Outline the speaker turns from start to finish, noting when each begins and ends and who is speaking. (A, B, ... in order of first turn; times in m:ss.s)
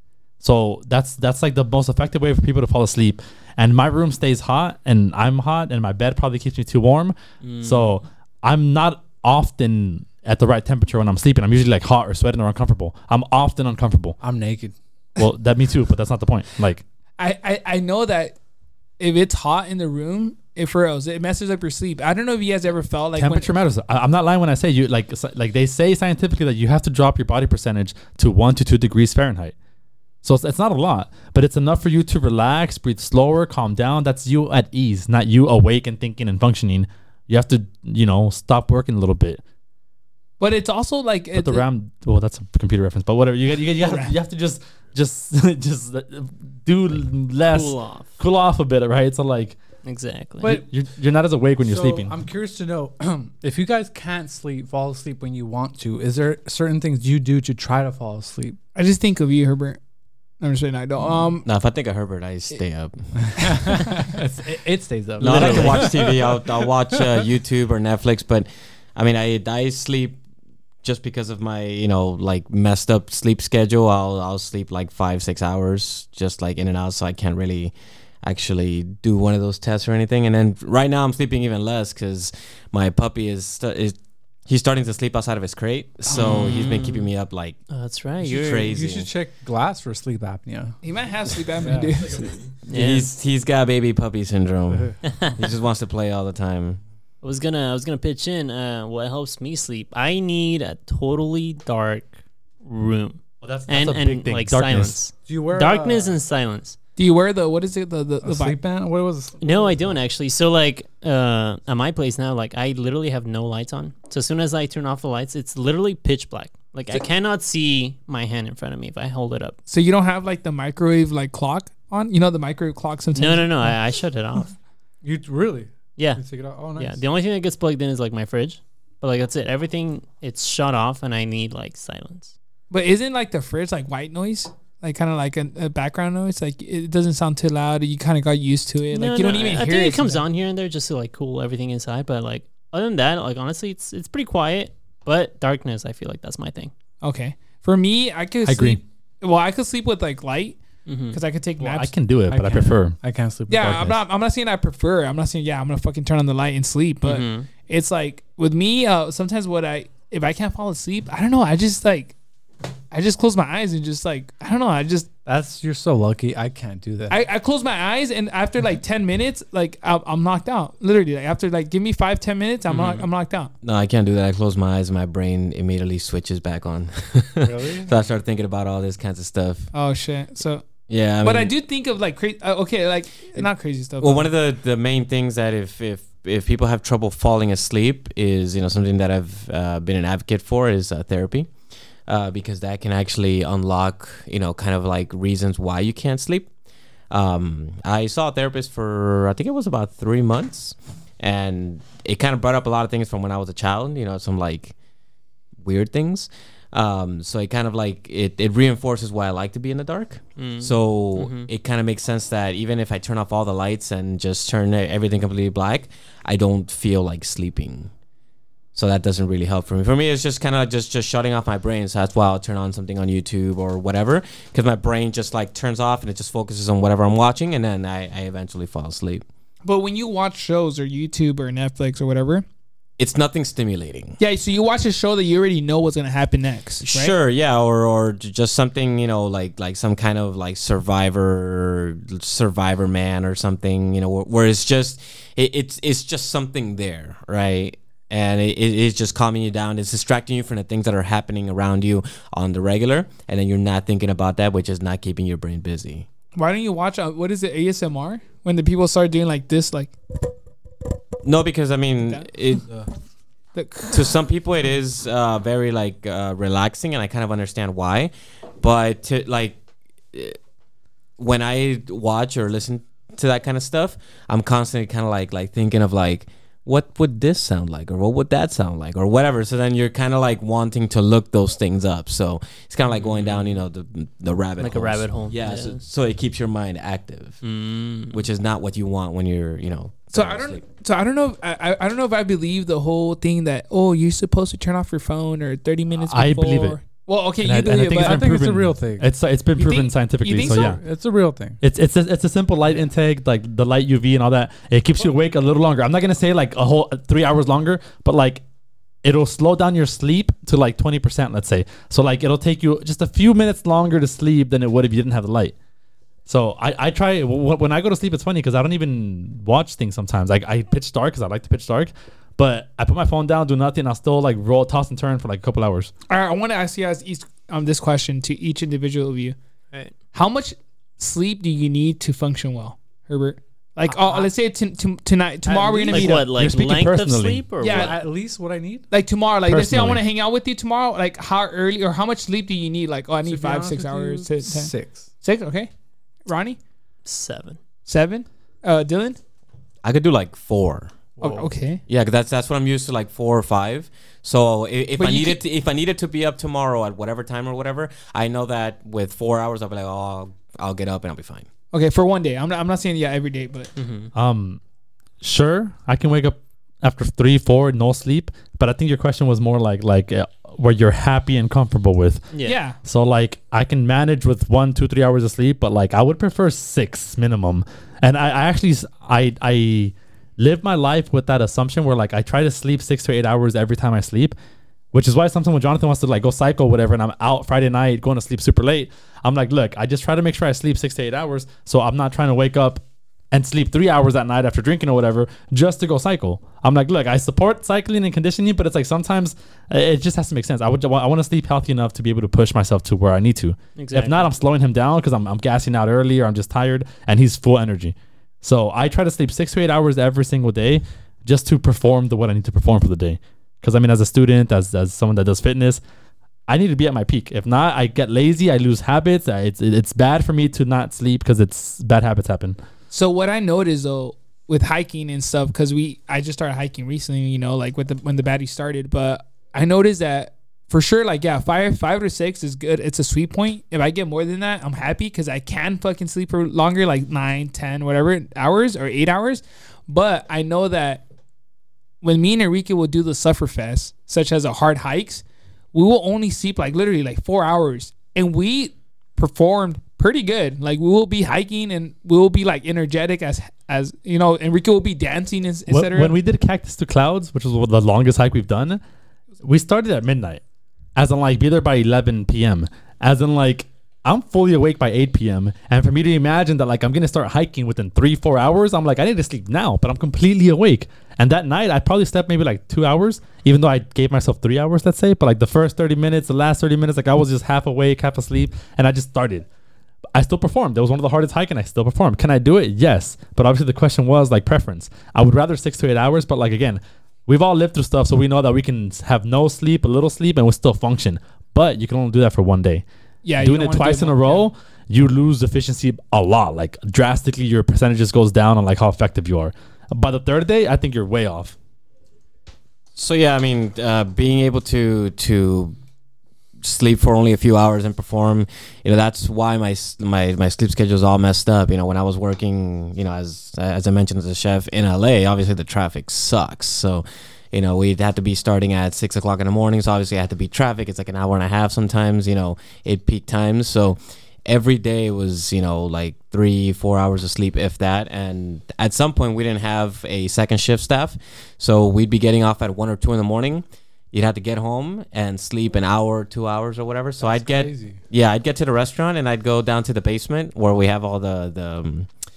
0:00.4-0:14.2 A
0:07.4-0:07.9 B
0:14.2-0:14.7 C
0:15.2-0:16.8 A
0:17.2-0:18.4 D
0:19.0-0:23.5 D
0:23.2-0:29.6 A
0:30.2-0:39.4 A
0:40.4-0:41.6 D
0:41.3-0:49.6 A
0:43.8-0:44.1 D
0:47.5-0:48.1 B
0:49.8-0:50.6 B
0:50.4-0:52.1 A
0:51.6-0:58.6 C
0:58.8-0:59.8 D
1:00.4-1:01.5 D
1:01.4-1:03.3 E
1:03.2-1:07.0 C
1:05.2-1:10.2 E
1:05.3-1:05.8 B
1:10.8-1:27.6 E
1:26.1-1:27.1 B
1:27.7-1:28.7 B
1:28.2-1:29.1 E
1:28.6-1:30.8 C
1:30.8-1:32.4 D
1:31.6-1:32.0 C
1:32.7-1:33.1 B
1:32.7-1:36.8 E
1:35.1-1:35.3 B
1:37.2-1:46.8 B
1:43.4-1:45.0 A
1:45.3-1:46.2 C
1:47.0-1:48.6 D
1:48.2-1:50.0 C
1:49.4-1:59.6 B
1:59.7-2:03.8 D
2:03.2-2:04.5 B
2:05.0-2:07.0 C
2:06.0-2:06.2 B
2:06.8-2:12.3 B
2:12.7-2:20.2 D
2:18.9-2:26.7 B
2:27.0-2:30.6 D
2:28.4-2:28.8 A
2:30.9-2:31.2 B
2:31.1-2:31.9 D
2:31.6-2:33.0 A
2:32.3-2:34.0 C
2:33.5-2:42.2 D
2:37.0-2:37.5 B
2:42.9-2:45.1 D
2:45.3-2:47.2 C
2:47.1-2:53.5 D
2:52.7-2:53.0 B
2:53.6-2:59.7 E
2:57.4-2:57.9 C
2:59.7-3:00.7 D
3:00.9-3:01.5 E
3:01.2-3:04.3 D
3:04.0-3:11.5 E
3:12.1-3:16.5 E
3:17.1-3:24.7 E
3:25.6-3:37.9 E
3:30.4-3:31.5 B
3:38.8-3:49.2 E
3:49.6-3:52.4 D
3:53.0-3:54.2 E
3:54.2-3:57.2 D
3:56.8-4:16.1 E
4:16.4-4:20.0 D
4:21.2-4:22.7 E
4:23.5-4:24.2 D
4:23.9-4:29.6 E
4:31.2-4:47.4 E
4:42.9-4:43.6 B
4:44.6-4:45.8 B
4:47.4-4:48.3 B
4:48.1-4:50.6 E
4:50.1-4:58.2 D
4:56.0-4:56.8 A
4:57.4-5:00.8 A
4:57.9-4:59.1 C
4:59.6-5:00.8 D
5:00.4-5:01.6 C
5:01.6-5:08.4 A
5:09.0-5:15.6 A
5:16.3-5:25.9 A
5:26.1-5:29.4 D
5:30.1-5:36.2 D
5:35.5-5:35.9 C
5:35.9-5:37.4 A
5:35.9-5:38.0 B
5:37.6-5:38.0 D
5:37.6-5:38.8 C
5:38.9-5:45.7 D
5:39.5-5:40.0 A
5:43.3-5:45.1 C
5:46.3-5:46.6 D
5:47.0-5:47.6 B
5:47.9-5:49.2 D
5:49.8-5:50.9 E
5:51.2-5:51.5 C
5:51.2-5:51.8 D
5:51.9-6:01.5 E
5:55.0-5:55.4 D
6:01.7-6:03.7 D
6:03.8-6:04.1 B
6:04.2-6:04.6 A
6:05.2-6:12.3 A
6:12.3-6:12.6 B
6:12.4-6:12.8 D
6:12.8-6:24.4 A
6:24.9-6:55.8 A
6:43.8-6:44.3 B
6:56.5-7:02.6 A
7:02.9-7:21.0 D
7:22.0-7:36.1 D
7:35.7-7:38.8 A
7:39.4-7:40.4 A
7:41.0-7:59.5 A
8:00.1-8:12.8 A
8:13.2-8:14.4 D
8:13.4-8:21.6 A
8:23.0-8:25.8 E
8:26.6-9:02.1 E
8:57.2-8:58.0 C